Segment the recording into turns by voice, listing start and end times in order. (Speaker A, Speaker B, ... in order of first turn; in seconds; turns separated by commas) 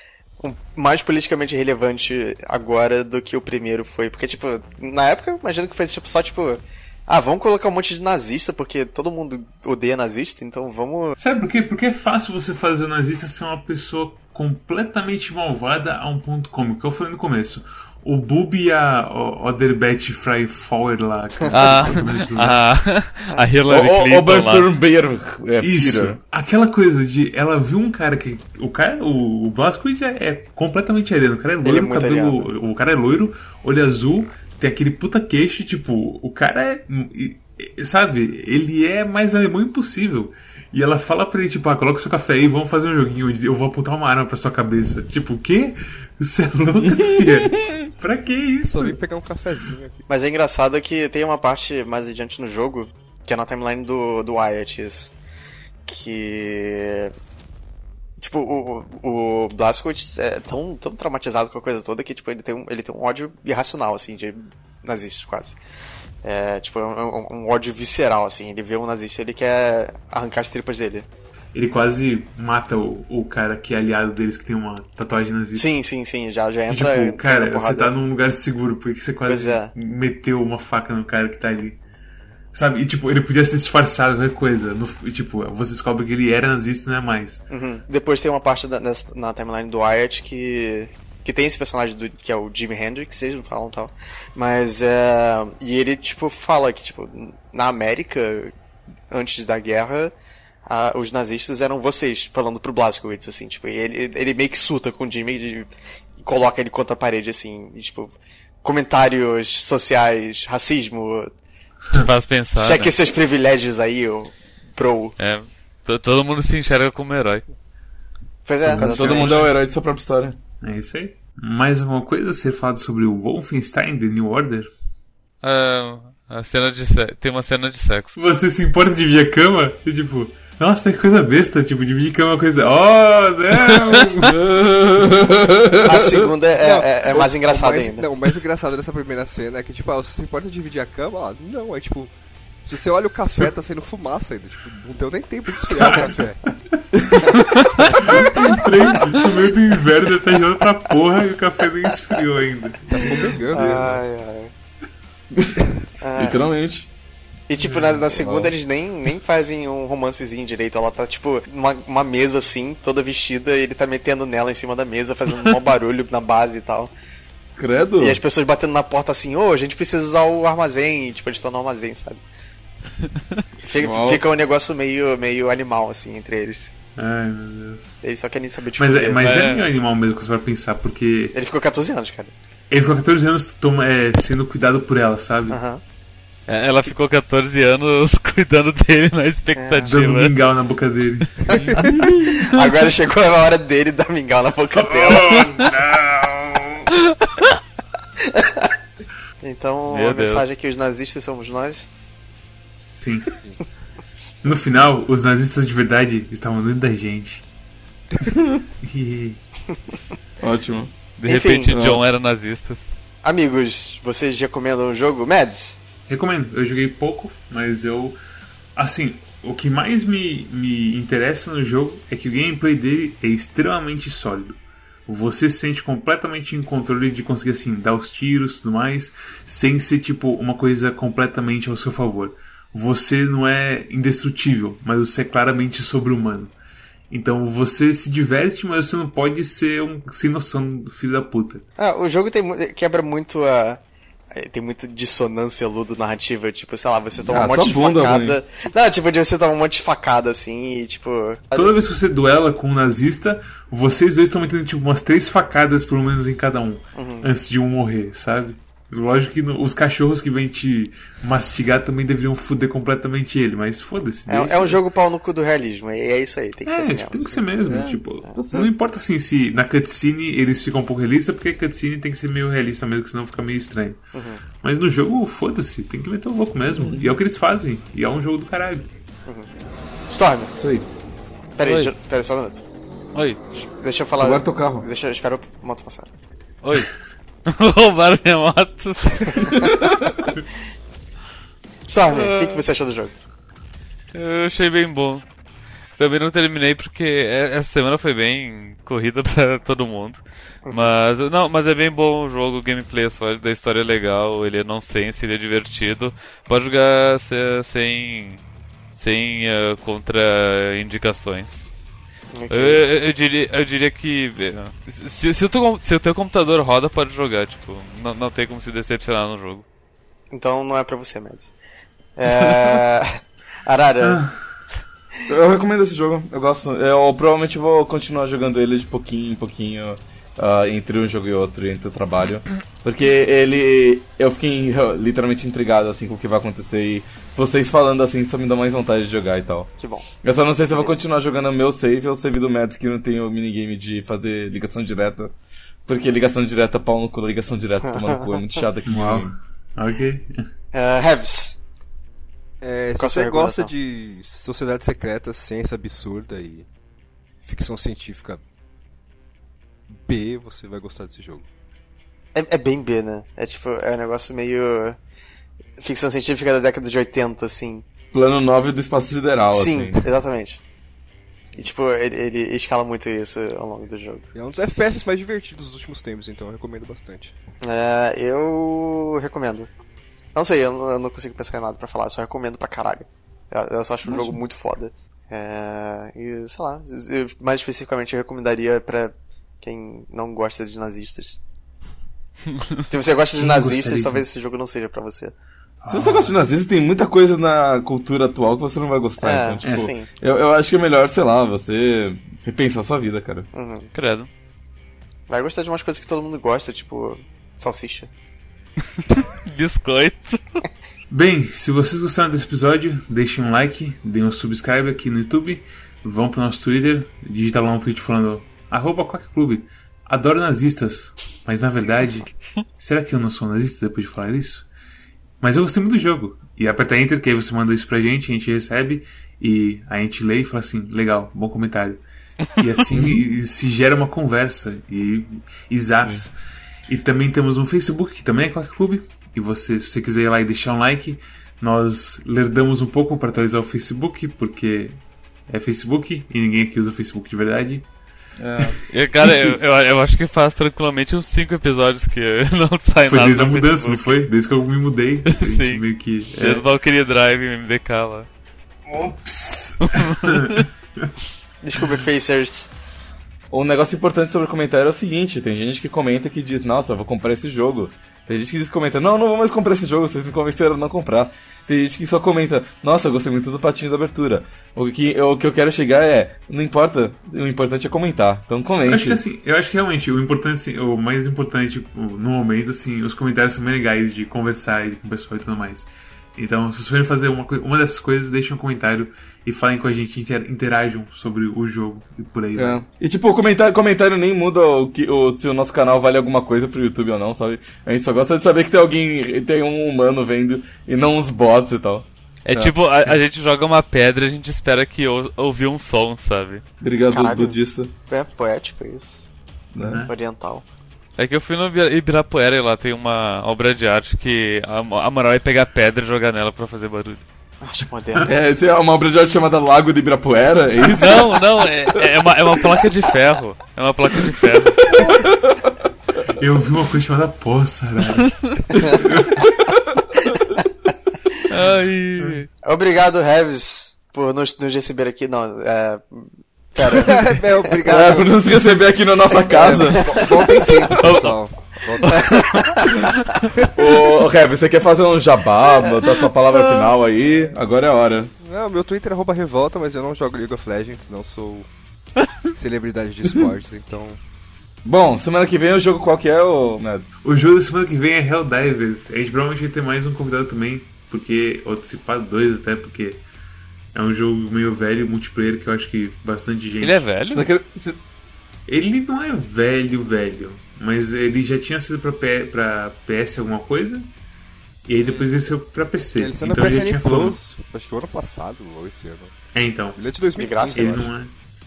Speaker A: 0.4-11.2, Speaker B: 11.2-22.6, Speaker C: 21.5-24.7, Speaker D: 23.7-26.2, Speaker B: 25.6-48.9, Speaker A: 31.6-32.5, Speaker D: 46.9-47.7, Speaker E: 48.7-50.0, Speaker A: 50.1-55.1, Speaker A: 55.9-57.1, Speaker A: 58.2-65.6, Speaker A: 66.2-71.1, Speaker B: 71.5-75.7, Speaker A: 75.5-77.9, Speaker B: 76.7-81.8, Speaker A: 79.2-79.7, Speaker B: 82.5-87.4, Speaker A: 87.5-98.5, Speaker A: 99.1-100.1, Speaker A: 100.7-105.7, Speaker A: 106.2-111.3, Speaker C: 111.9-112.9, Speaker A: 112.5-115.2, Speaker C: 115.2-117.4, Speaker A: 118.4-119.5, Speaker B: 118.6-119.5, Speaker D: 118.7-120.4, Speaker B: 120.6-124.7, Speaker C: 125.4-128.2, Speaker B: 128.2-134.4, Speaker C: 133.6-134.1, Speaker D: 134.2-136.1, Speaker A: 135.8-138.0, Speaker E: 136.6-142.1, Speaker E: 142.6-146.4, Speaker B: 145.7-146.1, Speaker D: 146.9-147.3, Speaker C: 147.3-147.9, Speaker A: 147.9-148.2, Speaker B: 148.0-154.0, Speaker E: 152.9-154.0, Speaker A: 153.5-154.5, Speaker D: 155.3-156.9, Speaker A: 156.0-156.4, Speaker A: 157.5-166.9, Speaker B: 157.6-158.0, Speaker D: 158.1-158.5, Speaker D: 167.6-168.2, Speaker A: 168.0-172.2, Speaker A: 173.6-176.7, Speaker D: 173.8-174.2, Speaker B: 177.0-177.9, Speaker A: 178.0-179.2, Speaker B: 178.8-181.3, Speaker C: 179.2-179.7, Speaker A: 181.3-182.3, Speaker B: 182.7-185.6, Speaker A: 185.5-185.8, Speaker C: 186.5-190.3, Speaker A: 189.6-189.9, Speaker B: 189.8-191.5, Speaker C: 191.4-191.9, Speaker A: 191.6-195.4, Speaker E: 191.7-191.9, Speaker B: 194.8-196.9, Speaker C: 197.1-197.4, Speaker A: 198.2-198.7, Speaker A: 199.4-201.9, Speaker C: 199.9-200.5, Speaker B: 202.9-203.3, Speaker B: 204.4-207.4, Speaker D: 208.2-208.6, Speaker B: 208.8-209.4, Speaker D: 210.4-210.9, Speaker C: 211.2-212.9, Speaker A: 211.2-211.7, Speaker D: 211.7-212.0, Speaker A: 213.2-215.8, Speaker B: 216.1-218.2, Speaker B: 218.8-236.5, Speaker B: 237.1-241.6, Speaker A: 241.8-243.8, Speaker A: 244.3-251.7, Speaker D: 247.3-248.4, Speaker B: 251.5-264.8, Speaker A: 256.9-257.3, Speaker A: 264.3-267.4, Speaker B: 266.7-274.0, Speaker D: 267.6-268.7, Speaker A: 274.1-274.4, Speaker B: 274.6-278.9, Speaker D: 276.7-277.1, Speaker A: 280.1-280.5, Speaker D: 280.5-280.9, Speaker A: 281.6-282.6, Speaker C: 281.6-281.9, Speaker C: 283.1-283.4, Speaker A: 283.5-286.1, Speaker D: 284.2-284.9, Speaker C: 286.6-286.9, Speaker C: 287.5-289.8, Speaker A: 289.3-289.7, Speaker A: 291.9-293.1, Speaker C: 292.1-292.6, Speaker C: 294.1-295.2, Speaker C: 296.0-311.7, Speaker A: 300.6-300.9, Speaker A: 312.3-312.8, Speaker C: 312.5-319.6, Speaker A: 320.3-321.5, Speaker A: 322.1-324.2, Speaker B: 324.0-324.4, Speaker D: 325.3-339.7, Speaker A: 339.8-340.1, Speaker D: 340.2-345.3, Speaker D: 345.9-349.3, Speaker B: 348.9-350.4, Speaker A: 350.7-351.6, Speaker E: 352.6-356.7, Speaker A: 353.0-353.7, Speaker E: 357.4-358.4, Speaker E: 359.9-361.4, Speaker A: 362.3-365.0, Speaker A: 365.8-367.8, Speaker D: 368.1-370.0, Speaker A: 369.5-370.6, Speaker A: 371.6-374.2, Speaker E: 374.3-377.3, Speaker A: 377.6-379.7, Speaker A: 380.3-391.4, Speaker A: 392.9-395.3, Speaker B: 393.2-394.3, Speaker B: 395.8-396.4, Speaker D: 395.9-403.5, Speaker A: 399.2-400.1, Speaker B: 399.6-399.9, Speaker A: 403.5-403.9, Speaker C: 403.9-404.3, Speaker A: 405.3-408.1, Speaker C: 409.0-410.6, Speaker B: 411.1-424.7, Speaker B: 425.4-432.0, Speaker B: 432.6-436.3, Speaker D: 432.9-433.2, Speaker B: 436.9-447.8, Speaker D: 448.4-449.3, Speaker C: 448.7-454.2, Speaker B: 453.1-456.7, Speaker C: 455.3-455.8, Speaker C: 456.4-458.3, Speaker B: 458.9-461.1, Speaker C: 459.8-460.6, Speaker A: 461.6-462.7, Speaker D: 463.5-479.2, Speaker B: 478.9-492.8, Speaker D: 492.6-503.2, Speaker C: 502.4-506.6, Speaker D: 506.8-507.9, Speaker A: 507.1-509.3, Speaker D: 509.7-510.0, Speaker B: 509.8-510.1, Speaker A: 510.0-510.6, Speaker C: 511.2-517.2, Speaker A: 517.6-518.3, Speaker D: 518.2-522.0, Speaker C: 520.9-525.0, Speaker D: 522.6-522.8, Speaker D: 524.8-525.7, Speaker B: 526.4-529.5, Speaker C: 528.2-528.6, Speaker D: 528.8-529.8, Speaker C: 531.5-532.5, Speaker A: 532.6-537.8, Speaker E: 536.9-538.4, Speaker D: 537.9-540.3, Speaker A: 539.4-540.7, Speaker E: 539.5-542.7, Speaker C: 541.0-541.4, Speaker C: 542.1-543.5, Speaker A: 542.1-542.9, Speaker D: 543.7-548.3, Speaker E: 548.4-551.7, Speaker E: 552.5-554.2, Speaker D: 554.8-557.1, Speaker B: 557.2-563.2, Speaker B: 563.9-567.0, Speaker C: 566.8-567.5, Speaker D: 567.3-568.0, Speaker B: 568.7-574.1, Speaker B: 574.9-577.4, Speaker C: 575.0-575.3, Speaker E: 576.1-579.3, Speaker B: 579.5-580.0, Speaker E: 580.0-581.1, Speaker A: 580.4-581.0, Speaker B: 580.7-581.3